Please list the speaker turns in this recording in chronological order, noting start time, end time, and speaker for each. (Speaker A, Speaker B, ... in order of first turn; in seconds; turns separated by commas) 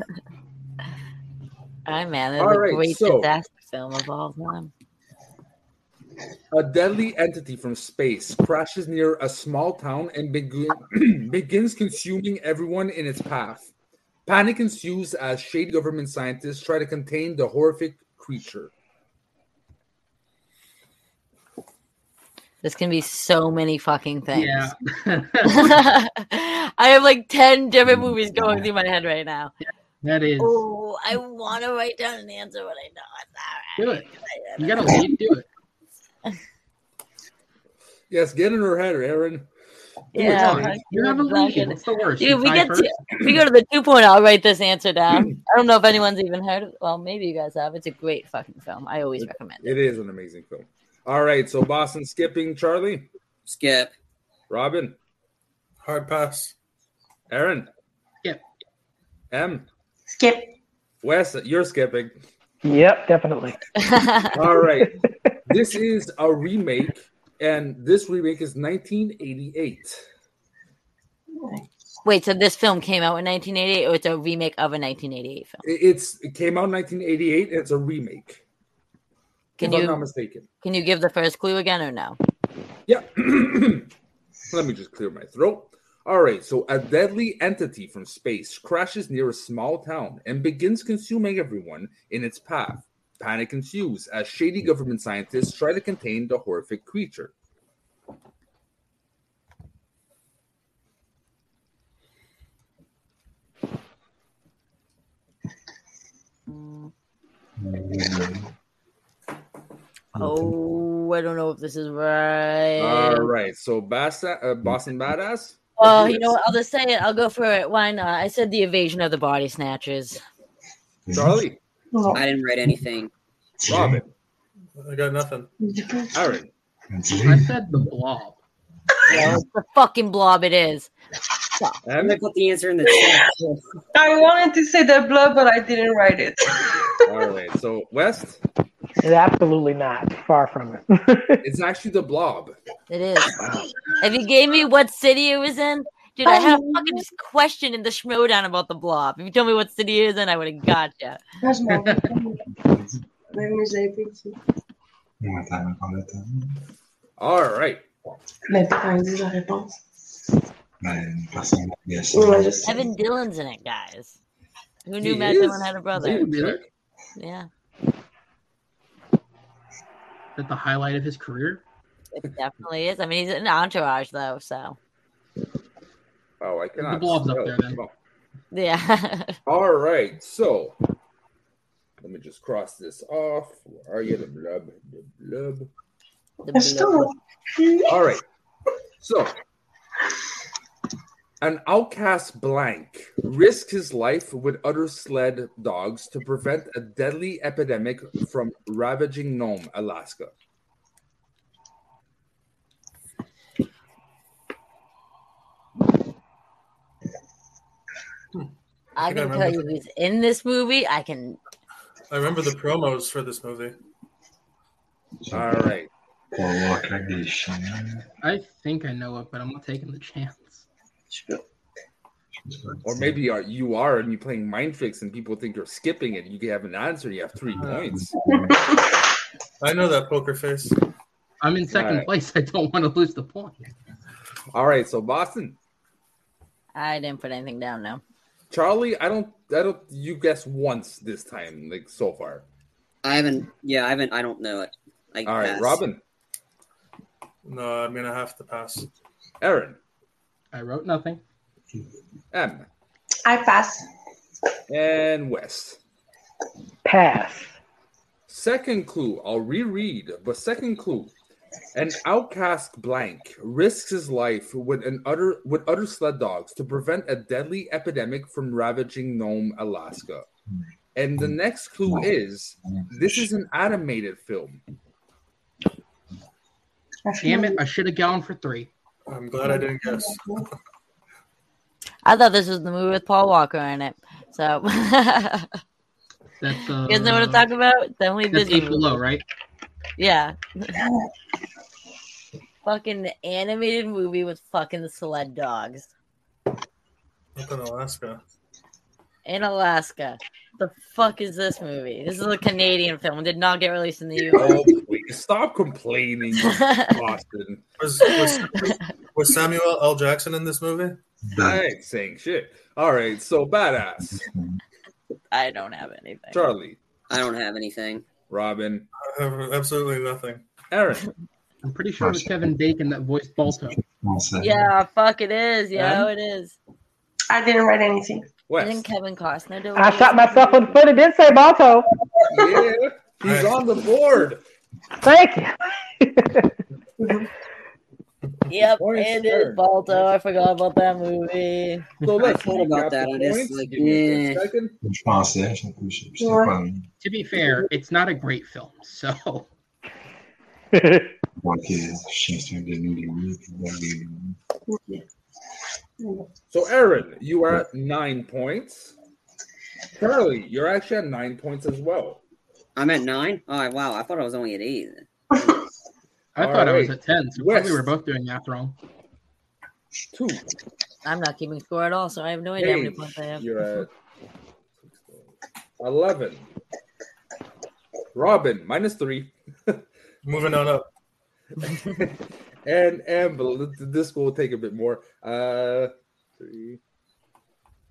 Speaker A: 1.9-4.7, Speaker B: 2.4-3.3, Speaker B: 6.5-13.7, Speaker B: 14.3-18.7, Speaker A: 22.6-24.7, Speaker C: 24.3-25.8, Speaker A: 25.4-29.5, Speaker D: 27.9-28.7, Speaker C: 29.6-30.6, Speaker A: 30.4-35.0, Speaker C: 33.8-35.5, Speaker B: 38.1-39.5, Speaker A: 40.1-49.8, Speaker C: 40.2-42.9, Speaker B: 40.2-40.8, Speaker B: 49.2-53.1, Speaker E: 53.5-53.9, Speaker B: 54.5-55.0, Speaker F: 55.8-56.5, Speaker B: 57.3-57.7, Speaker B: 59.3-59.7, Speaker G: 60.1-60.5, Speaker B: 61.0-62.2, Speaker H: 62.6-63.6, Speaker A: 63.8-64.4, Speaker B: 64.3-70.1, Speaker G: 71.4-71.7, Speaker A: 72.0-75.6, Speaker B: 75.6-78.4, Speaker A: 79.6-80.0, Speaker B: 79.6-80.5, Speaker A: 80.6-82.2, Speaker B: 82.9-83.9, Speaker B: 84.5-97.3, Speaker D: 107.6-108.5, Speaker D: 110.2-110.5, Speaker A: 110.2-113.3, Speaker B: 112.8-116.4, Speaker A: 115.8-120.2, Speaker D: 121.1-121.4, Speaker B: 121.1-121.6, Speaker G: 121.9-122.2, Speaker E: 122.1-123.1, Speaker D: 123.6-124.0, Speaker B: 123.7-124.1, Speaker F: 124.8-125.5, Speaker G: 125.6-126.4, Speaker B: 126.1-126.5, Speaker D: 126.9-127.9, Speaker C: 127.2-128.4, Speaker A: 129.1-130.9, Speaker B: 131.8-132.2, Speaker E: 132.0-133.6, Speaker G: 132.9-133.2, Speaker G: 133.9-137.0, Speaker B: 137.1-138.4, Speaker H: 139.0-141.4, Speaker B: 141.4-142.6, Speaker A: 142.9-143.4, Speaker A: 144.0-151.2, Speaker G: 146.2-147.0, Speaker G: 151.4-152.4, Speaker D: 152.5-153.0, Speaker G: 153.3-154.4, Speaker D: 155.2-156.6, Speaker B: 157.2-157.8, Speaker G: 158.5-159.8, Speaker D: 160.8-162.6, Speaker G: 162.1-162.9, Speaker A: 162.7-164.2, Speaker A: 164.9-166.3, Speaker B: 165.0-166.7, Speaker C: 166.0-166.6, Speaker A: 167.2-167.5, Speaker C: 170.4-171.6, Speaker A: 172.1-174.8, Speaker B: 176.4-177.9, Speaker C: 176.8-177.8, Speaker A: 178.5-179.4, Speaker B: 179.5-180.8, Speaker B: 182.0-185.7, Speaker A: 186.4-187.1, Speaker G: 186.5-188.0, Speaker B: 187.9-188.2, Speaker B: 189.0-189.3, Speaker B: 191.4-200.3, Speaker A: 209.0-211.4, Speaker F: 209.0-209.7, Speaker F: 212.1-213.8, Speaker D: 215.2-215.7, Speaker B: 215.3-215.9, Speaker D: 216.3-218.1, Speaker C: 218.2-220.7, Speaker G: 221.1-221.4, Speaker D: 222.4-223.2, Speaker B: 222.8-228.1, Speaker D: 227.6-228.8, Speaker F: 227.6-227.9, Speaker G: 228.3-229.0, Speaker F: 229.6-230.8, Speaker C: 231.4-233.7, Speaker B: 231.7-232.1, Speaker B: 234.5-235.6, Speaker A: 236.8-238.0, Speaker B: 238.5-242.4, Speaker E: 243.0-245.8, Speaker B: 245.2-246.0, Speaker F: 247.4-248.9, Speaker B: 249.4-249.8, Speaker C: 250.5-251.2, Speaker B: 252.3-252.7, Speaker G: 253.2-253.9, Speaker B: 254.7-255.8, Speaker H: 256.9-257.5, Speaker B: 258.3-261.1, Speaker B: 261.7-270.3, Speaker B: 270.9-274.6, Speaker D: 271.2-272.1, Speaker D: 272.6-273.3, Speaker G: 277.1-277.6, Speaker C: 277.2-278.7, Speaker F: 279.1-280.2, Speaker G: 279.4-280.4, Speaker A: 282.1-285.5, Speaker C: 286.4-287.5, Speaker A: 286.9-289.0, Speaker C: 288.3-289.2, Speaker A: 290.0-290.8, Speaker A: 292.6-295.9, Speaker F: 297.4-298.2, Speaker A: 299.2-304.6, Speaker B: 304.3-307.6, Speaker A: 306.4-306.9, Speaker F: 307.8-311.0, Speaker A: 308.0-308.4, Speaker D: 311.2-311.6, Speaker B: 311.4-314.2, Speaker D: 314.1-314.6, Speaker A: 315.3-316.4, Speaker B: 316.3-316.8, Speaker E: 317.1-318.1, Speaker B: 318.3-318.9, Speaker F: 319.0-320.4, Speaker B: 320.7-321.1, Speaker C: 321.6-323.8, Speaker D: 322.0-322.5, Speaker D: 323.5-324.7, Speaker A: 324.4-326.6, Speaker B: 325.8-326.1, Speaker G: 327.3-328.3, Speaker B: 328.5-328.9, Speaker A: 328.6-330.8, Speaker H: 329.8-331.9, Speaker B: 332.3-334.4, Speaker F: 333.2-333.5, Speaker H: 335.0-336.5, Speaker G: 337.0-337.3, Speaker A: 338.5-341.9, Speaker B: 338.8-339.6, Speaker B: 342.0-344.8, Speaker E: 342.2-344.4, Speaker D: 344.8-346.9, Speaker G: 346.2-346.6, Speaker C: 347.0-349.5, Speaker H: 350.7-351.1, Speaker D: 351.4-354.4, Speaker G: 354.7-355.0, Speaker G: 356.0-356.3, Speaker B: 356.5-358.9, Speaker B: 360.0-362.2, Speaker E: 362.8-365.1, Speaker B: 366.4-367.9, Speaker C: 366.4-368.8, Speaker B: 370.1-370.4, Speaker A: 371.1-373.4, Speaker B: 372.6-373.9, Speaker B: 374.8-375.3, Speaker B: 375.8-376.5, Speaker B: 378.1-379.9, Speaker F: 380.2-380.9, Speaker B: 381.6-386.8